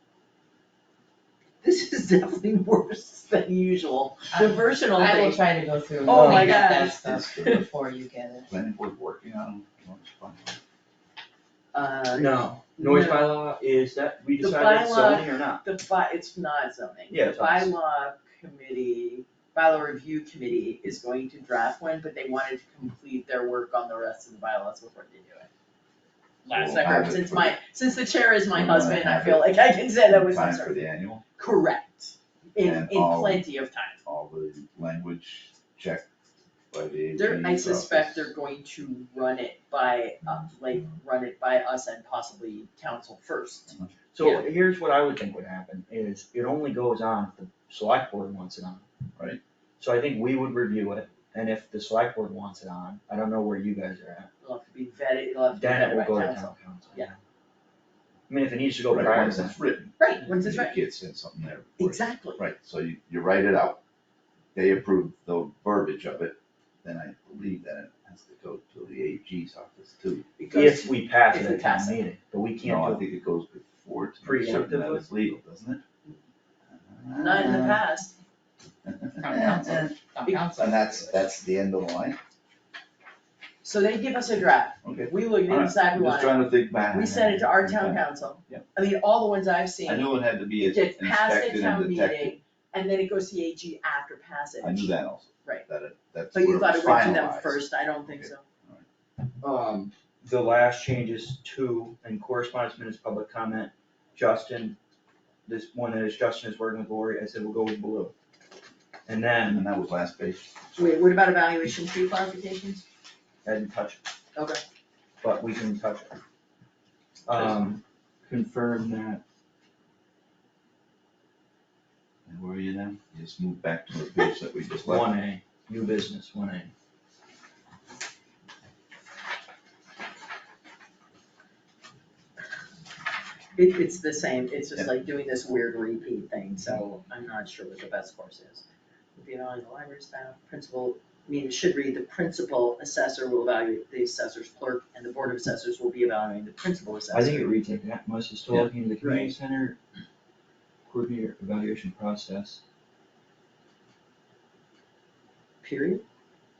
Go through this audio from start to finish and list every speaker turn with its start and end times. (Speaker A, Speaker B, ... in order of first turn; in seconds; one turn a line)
Speaker A: 1.6-5.4
Speaker B: 4.3-8.5
Speaker A: 6.0-7.6
Speaker C: 6.1-6.5
Speaker D: 7.0-7.6
Speaker D: 8.5-10.6
Speaker A: 11.7-13.3
Speaker C: 12.1-15.6
Speaker A: 14.4-25.5
Speaker C: 17.1-17.7
Speaker A: 26.4-30.8
Speaker D: 26.5-27.6
Speaker D: 28.5-31.2
Speaker A: 31.3-34.0
Speaker D: 32.6-33.4
Speaker D: 34.0-36.0
Speaker D: 36.7-38.3
Speaker A: 37.1-43.7
Speaker D: 43.7-43.9
Speaker C: 44.1-48.8
Speaker C: 49.8-54.3
Speaker A: 54.4-57.1
Speaker C: 55.5-57.2
Speaker C: 58.3-59.6
Speaker D: 58.9-63.8
Speaker A: 60.0-60.8
Speaker A: 61.8-62.4
Speaker D: 64.5-70.3
Speaker A: 70.4-72.0
Speaker C: 70.5-73.0
Speaker D: 72.6-75.8
Speaker C: 74.2-75.3
Speaker D: 76.7-77.8
Speaker A: 77.1-78.1
Speaker D: 79.0-79.8
Speaker B: 79.2-81.0
Speaker A: 80.2-80.9
Speaker D: 80.6-82.2
Speaker A: 83.6-95.7
Speaker D: 84.8-88.6
Speaker D: 89.8-92.3
Speaker D: 94.6-98.8
Speaker A: 96.3-98.4
Speaker C: 99.4-104.8
Speaker C: 105.5-108.1
Speaker C: 109.0-109.7
Speaker D: 109.4-110.5
Speaker A: 110.7-112.8
Speaker C: 113.4-114.0
Speaker A: 114.3-114.6
Speaker C: 115.2-116.1
Speaker C: 117.2-119.2
Speaker D: 122.2-125.1
Speaker C: 124.8-126.7
Speaker A: 133.6-147.5
Speaker C: 147.1-149.8
Speaker A: 149.0-149.3
Speaker C: 150.9-152.6
Speaker A: 155.6-156.0